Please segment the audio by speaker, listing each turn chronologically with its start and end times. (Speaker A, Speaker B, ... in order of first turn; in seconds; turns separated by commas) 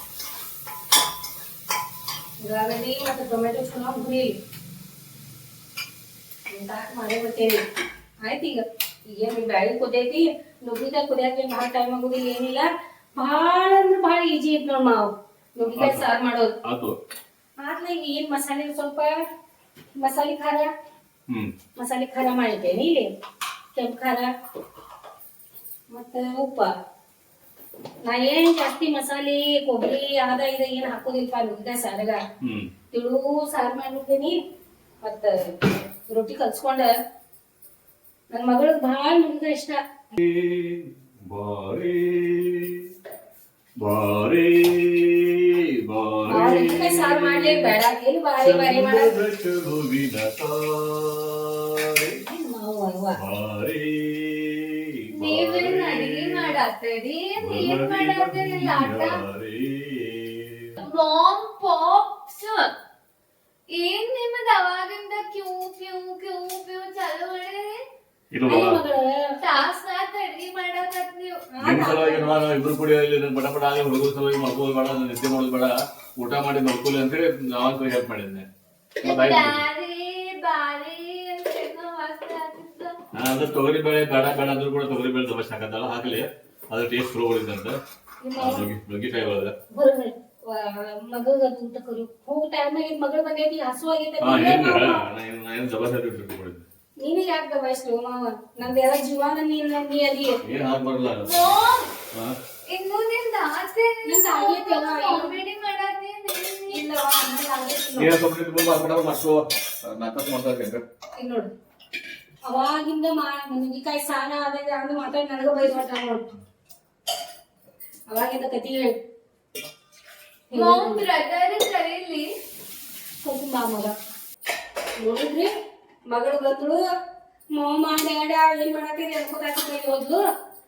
Speaker A: 2.4-4.3, Speaker A: 6.5-7.6, Speaker A: 8.2-16.5, Speaker B: 15.8-16.1, Speaker B: 16.6-17.0, Speaker A: 17.6-19.2, Speaker A: 20.0-20.7, Speaker A: 21.8-23.0, Speaker A: 23.7-24.3, Speaker A: 25.9-26.7, Speaker A: 28.0-32.2, Speaker B: 32.4-32.7, Speaker A: 32.9-34.4, Speaker A: 35.0-36.9, Speaker A: 38.3-39.8, Speaker B: 40.1-42.9, Speaker B: 43.8-47.8, Speaker A: 46.3-49.1, Speaker B: 48.4-52.2, Speaker A: 52.3-53.2, Speaker B: 53.2-56.6, Speaker C: 55.1-59.2, Speaker B: 57.4-60.7, Speaker C: 60.8-62.7, Speaker C: 63.7-67.8, Speaker B: 68.3-68.8, Speaker A: 68.5-69.4, Speaker C: 69.4-71.5, Speaker A: 71.5-72.3, Speaker B: 71.6-78.5, Speaker C: 79.0-83.0, Speaker B: 79.0-79.6, Speaker B: 83.1-87.8, Speaker A: 88.2-88.7, Speaker B: 88.4-89.5, Speaker A: 89.7-95.0, Speaker B: 94.2-96.7, Speaker A: 97.0-100.4, Speaker B: 100.4-101.6, Speaker C: 101.2-101.9, Speaker B: 102.1-102.4, Speaker C: 102.7-106.8, Speaker A: 104.0-105.4, Speaker A: 106.7-108.1, Speaker B: 108.0-110.8, Speaker A: 111.2-111.5, Speaker A: 112.5-116.2, Speaker A: 118.1-119.0, Speaker A: 120.5-121.1, Speaker C: 120.5-122.3, Speaker A: 123.2-124.0, Speaker A: 125.0-125.5, Speaker A: 126.1-126.8, Speaker A: 127.5-130.2